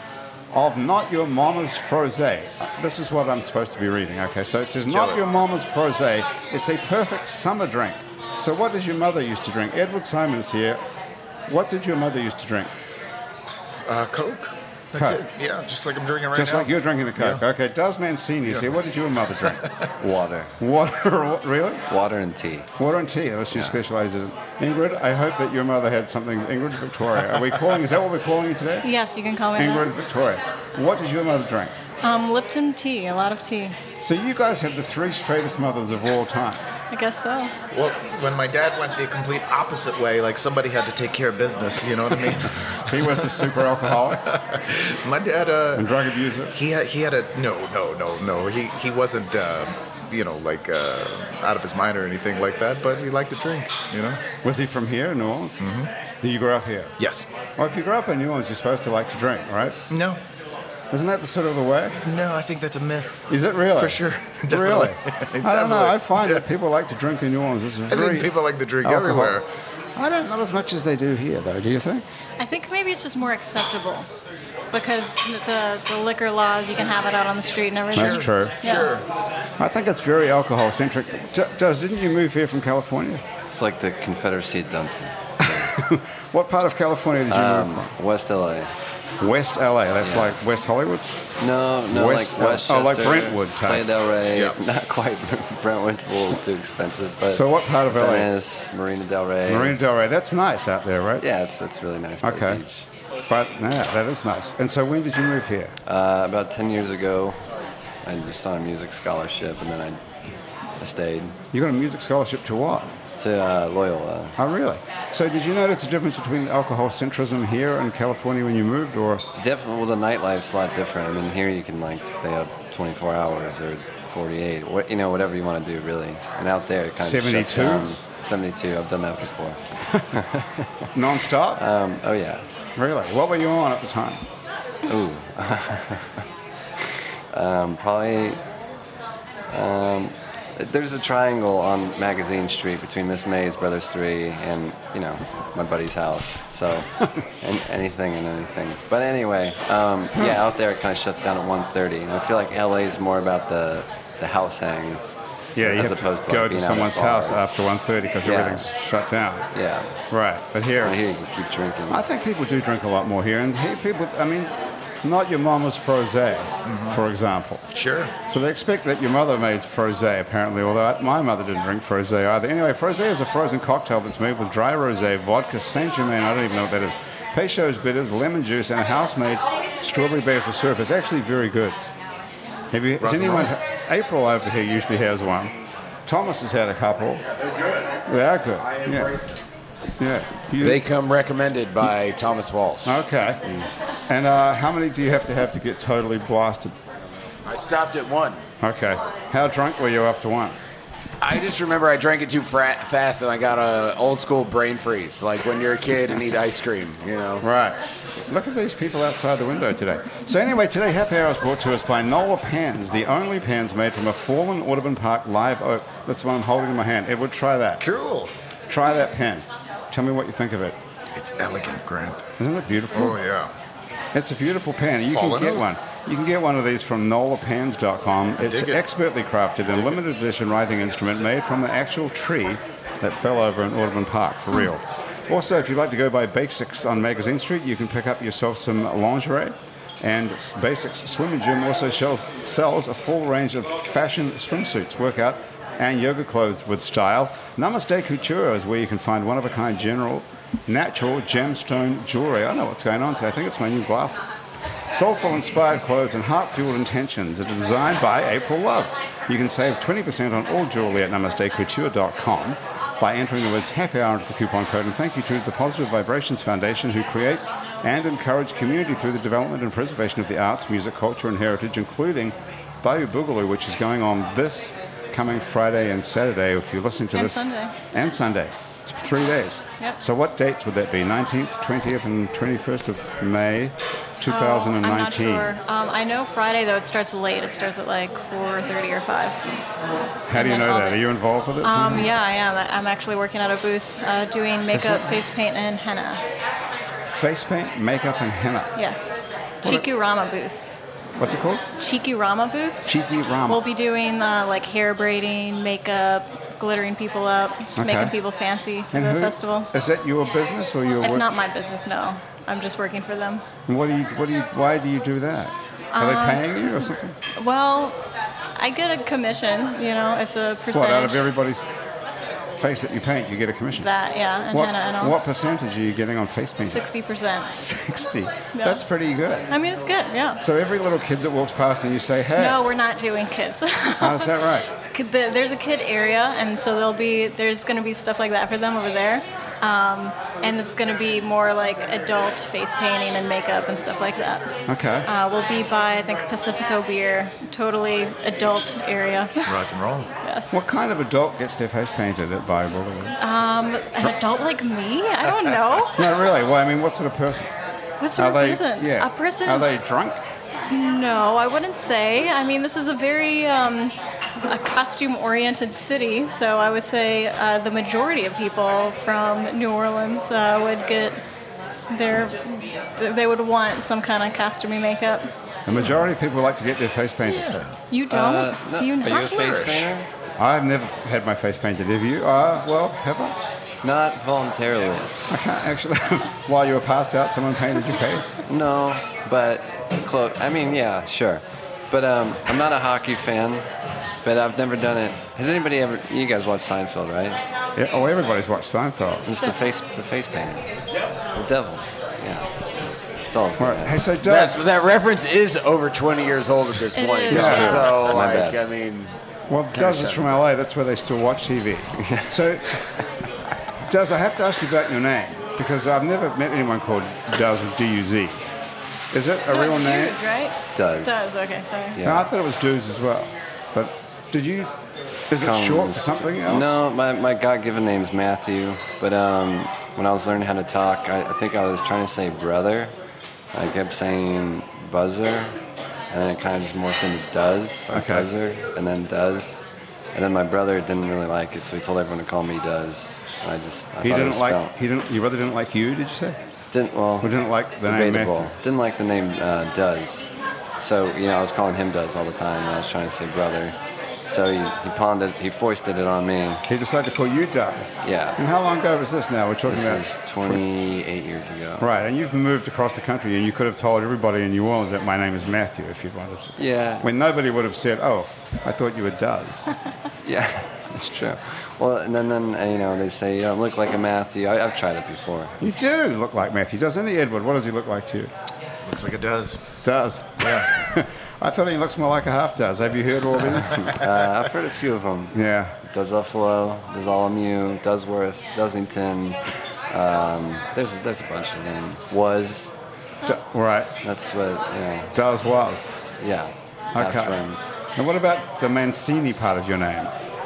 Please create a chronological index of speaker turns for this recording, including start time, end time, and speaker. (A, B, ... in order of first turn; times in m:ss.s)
0:00.5-0:10.8 A
0:04.9-0:05.2 B
0:11.5-0:12.7 A
0:13.8-0:17.4 B
0:14.9-0:15.2 A
0:16.3-0:19.6 A
0:20.0-0:20.5 C
0:20.6-0:21.8 A
0:21.9-0:22.7 C
0:22.8-0:28.8 A
0:28.8-0:29.9 D
0:29.6-0:31.8 A
0:32.0-0:33.7 D
0:34.0-0:36.6 A
0:36.9-0:37.5 D
0:37.7-0:45.9 B
0:42.9-0:44.3 A
0:45.7-0:46.5 A
0:46.5-0:54.2 B
0:54.4-0:55.6 A
0:55.6-0:55.9 B
0:56.2-0:56.9 A
0:57.0-0:57.3 B
0:57.6-0:59.8 A
0:59.9-1:00.2 B
1:00.9-1:02.0 A
1:02.0-1:06.4 B
1:03.3-1:08.3 A
1:07.9-1:09.4 B
1:08.8-1:09.4 A
1:10.0-1:12.0 A
1:12.4-1:14.1 D
1:14.7-1:18.9 D
1:17.9-1:18.6 A
1:17.9-1:19.1 B
1:19.6-1:23.2 A
1:23.4-1:25.7 C
1:25.4-1:27.9 A
1:27.3-1:28.7 C
1:29.2-1:31.1 A
1:30.0-1:30.4 C
1:31.4-1:39.8 C
1:31.9-1:33.8 A
1:34.3-1:34.6 B
1:37.2-1:38.3 A
1:39.5-1:41.2 A
1:41.2-1:42.8 C
1:42.2-1:42.6 A
1:43.3-1:45.7 A
1:45.8-1:47.4 C
1:48.0-1:50.0 C
1:50.8-1:51.4 C
1:51.5-1:52.9 A
1:53.2-1:54.4 C
1:54.4-1:59.2 A
1:59.4-2:09.6 C
2:07.0-2:07.9 A
2:09.9-2:10.2 A
2:10.1-2:10.9 C
2:10.9-2:11.6 A
2:11.6-2:12.4 C
2:12.8-2:14.2 A
2:14.8-2:16.2 C
2:16.8-2:18.4 C
2:19.5-2:35.0 C
2:35.6-2:39.5 A
2:35.6-2:37.5 C
2:38.2-2:38.7 C
2:39.5-2:40.0 C
2:40.1-2:41.1 A
2:40.8-2:42.0 C
2:41.9-2:47.6 A
2:46.6-2:47.0 B
2:47.7-2:48.1 B
2:48.2-3:01.8 A
3:02.7-3:05.5 A
3:03.0-3:03.5 B
3:06.0-3:07.2 A
3:07.3-3:08.0 E
3:08.0-3:09.2 A
3:08.6-3:09.4 E
3:10.0-3:10.8 A
3:10.6-3:13.0 E
3:12.8-3:16.8 A
3:17.4-3:18.4 E
3:18.6-3:20.6 A
3:21.2-3:27.4 E
3:27.4-3:37.8 A
3:37.8-3:38.3 B
3:38.7-3:40.8 A
3:41.1-3:42.2 B
3:42.4-3:43.2 A
3:42.9-3:43.5 B
3:44.1-4:14.4 A
3:45.0-3:45.6 B
3:48.4-3:48.8 B
4:14.9-4:45.6 A
4:37.1-4:37.7 D
4:44.2-4:49.4 D
4:50.3-4:52.1 A
4:50.3-4:51.0 D
4:51.6-4:56.2 D
4:54.7-4:55.1 A
4:57.0-4:58.8 A
4:58.8-5:00.8 D
5:01.2-5:01.6 A
5:01.8-5:02.9 D
5:02.8-5:03.6 A
5:03.5-5:09.7 D
5:07.8-5:08.1 A
5:08.9-5:11.2 A
5:11.0-5:13.4 D
5:13.7-5:17.1 A
5:15.9-5:18.0 D
5:18.6-5:21.2 D
5:20.7-5:21.7 A
5:22.5-5:23.9 A
5:23.8-5:25.2 D
5:24.5-5:26.9 A
5:26.6-5:27.5 D
5:27.5-5:29.5 A
5:28.5-5:28.8 D
5:29.5-5:30.4 D
5:30.4-5:32.6 A
5:32.4-5:44.4 D
5:34.0-5:34.7 A
5:44.7-5:45.1 A
5:45.0-5:49.5 D
5:49.4-5:50.1 B
5:50.2-5:50.6 D
5:50.5-5:53.2 A
5:53.2-5:56.0 D
5:56.0-5:57.5 A
5:58.0-5:59.7 D
5:58.1-6:00.2 A
6:00.7-6:03.9 D
6:04.4-6:11.2 D
6:11.9-6:15.3 D
6:15.7-6:17.5 A
6:15.7-6:16.0 B
6:17.3-6:17.8 B
6:17.9-6:19.8 D
6:18.1-6:20.1 C
6:19.3-6:19.8 B
6:20.4-6:23.4 A
6:23.8-6:25.1 C
6:25.3-6:28.4 A
6:28.5-6:33.7 C
6:34.2-6:37.4 C
6:37.8-6:39.3 A
6:39.2-6:40.7 C
6:41.2-6:42.5 C
6:43.3-6:44.1 C
6:43.6-6:44.6 A
6:44.2-6:49.2 E
6:46.9-6:47.7 D
6:47.3-6:47.9 A
6:47.3-6:48.6 C
6:49.5-6:52.8 A
6:49.7-6:50.3 E
6:52.0-6:52.3 C
6:53.8-6:58.5 A
6:59.1-7:00.2 A
6:59.5-7:02.0 D
7:00.6-7:01.3 C
7:02.0-7:02.3 C
7:02.0-7:04.7 A
7:05.3-7:06.8 A
7:05.4-7:12.9 C
7:13.5-7:15.6 C
7:16.1-7:24.7 C
7:17.9-7:18.3 A
7:24.0-7:26.4 A
7:26.7-7:33.8 C
7:27.2-7:28.5 A
7:34.3-7:36.6 C
7:36.7-7:40.6 A
7:38.0-7:38.4 C
7:39.7-7:41.9 C
7:41.8-7:49.7 A
7:46.6-7:47.1 C
7:50.2-7:55.7 C
7:51.0-7:51.3 A
7:55.6-7:58.3 A
7:58.8-7:59.6 B
7:59.8-8:04.0 A
8:00.4-8:00.7 B
8:03.9-8:12.7 C
8:05.3-8:05.8 A
8:13.2-8:13.9 A
8:14.0-8:15.1 C
8:15.1-8:15.9 A
8:16.2-8:17.8 C
8:16.9-8:17.4 A
8:17.9-8:20.1 A